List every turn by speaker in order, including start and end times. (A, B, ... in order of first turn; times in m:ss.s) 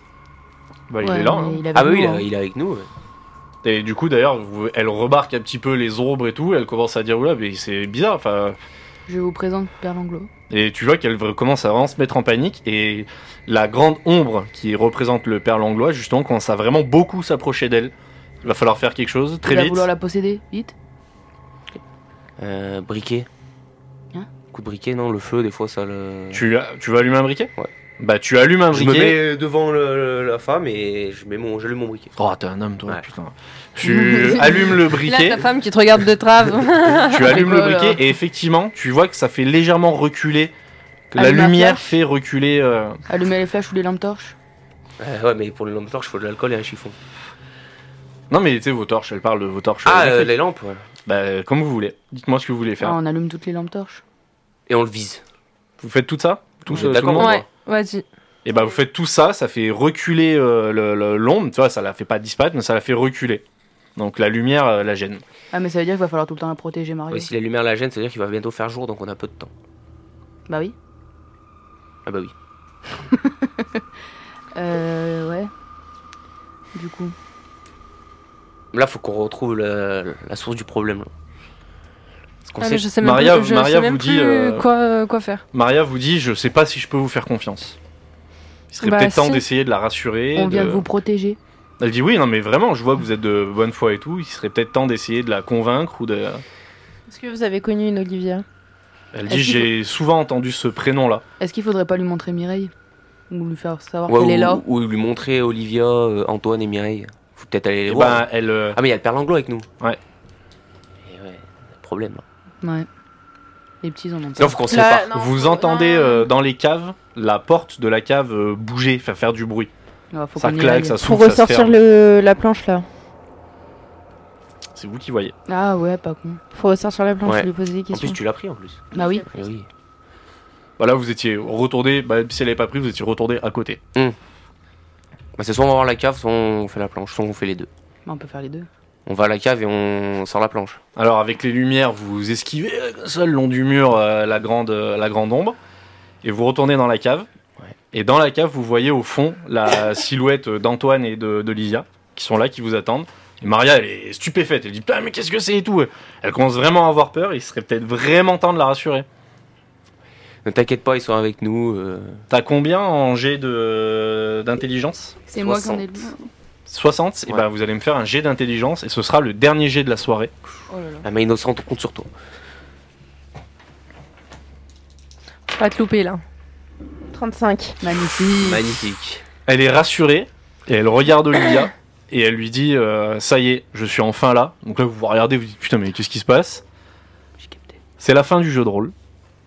0:00.9-0:01.6 A
0:01.0-0:02.3 B
0:01.7-0:02.9 C
0:03.6-0:08.6 A
0:09.1-0:10.3 B
0:10.5-0:19.9 A
0:19.5-0:20.7 B
0:22.4-0:23.3 C
0:24.5-0:26.4 C
0:26.3-0:29.2 A
0:28.7-0:32.2 C
0:32.2-0:35.4 A
0:34.0-0:34.6 B
0:34.8-0:37.4 D
0:36.9-0:40.5 A
0:37.2-0:38.0 B
0:41.1-0:43.0 A
0:41.2-0:42.0 B
0:43.1-0:44.4 B
0:45.0-0:47.0 C
0:48.3-0:50.4 A
0:49.9-0:50.8 C
0:51.1-0:53.0 A
0:52.8-0:54.0 B
0:54.7-0:55.2 C
0:55.8-0:57.4 A
0:56.7-0:57.5 C
0:57.2-0:58.0 D
0:58.4-1:03.4 A
1:04.0-1:05.2 A
1:05.5-1:07.3 B
1:07.1-1:09.5 C
1:10.5-1:10.8 B
1:12.1-1:12.3 C
1:13.0-1:13.6 B
1:14.6-1:15.5 B
1:16.7-1:17.2 B
1:18.7-1:21.1 C
1:22.4-1:22.9 C
1:22.6-1:25.4 D
1:23.0-1:24.7 A
1:25.5-1:27.8 A
1:28.7-1:30.9 A
1:28.8-1:29.4 D
1:30.4-1:31.4 B
1:31.8-1:36.4 A
1:37.1-1:38.4 E
1:39.1-1:41.2 A
1:39.3-1:39.6 E
1:41.4-1:42.7 B
1:43.3-1:44.6 B
1:44.1-1:49.7 C
1:47.9-1:48.8 A
1:51.0-1:52.2 C
1:52.6-1:52.9 B
1:53.8-1:54.6 B
1:54.4-1:55.1 C
1:54.7-1:56.3 E
1:54.9-1:59.7 A
2:00.1-2:01.0 B
2:00.4-2:01.8 A
2:01.0-2:02.8 E
2:04.8-2:05.3 A
2:05.5-2:06.4 B
2:06.5-2:08.2 E
2:07.2-2:09.7 C
2:08.9-2:09.4 E
2:08.9-2:09.3 B
2:10.8-2:13.8 A
2:15.4-2:17.7 C
2:18.1-2:18.7 B
2:19.1-2:20.8 C
2:21.0-2:25.6 A
2:26.2-2:27.3 A
2:27.9-2:39.1 A
2:40.4-2:42.2 C
2:42.3-2:45.2 A
2:45.3-2:46.2 B
2:45.4-2:46.1 C
2:46.7-2:50.3 A
2:50.7-2:51.1 B
2:51.0-2:52.1 C
2:55.5-2:56.2 D
2:57.1-2:57.8 E
2:57.8-2:58.7 B
2:58.4-2:59.2 C
2:59.5-3:06.6 A
3:07.4-3:07.8 B
3:08.0-3:08.9 A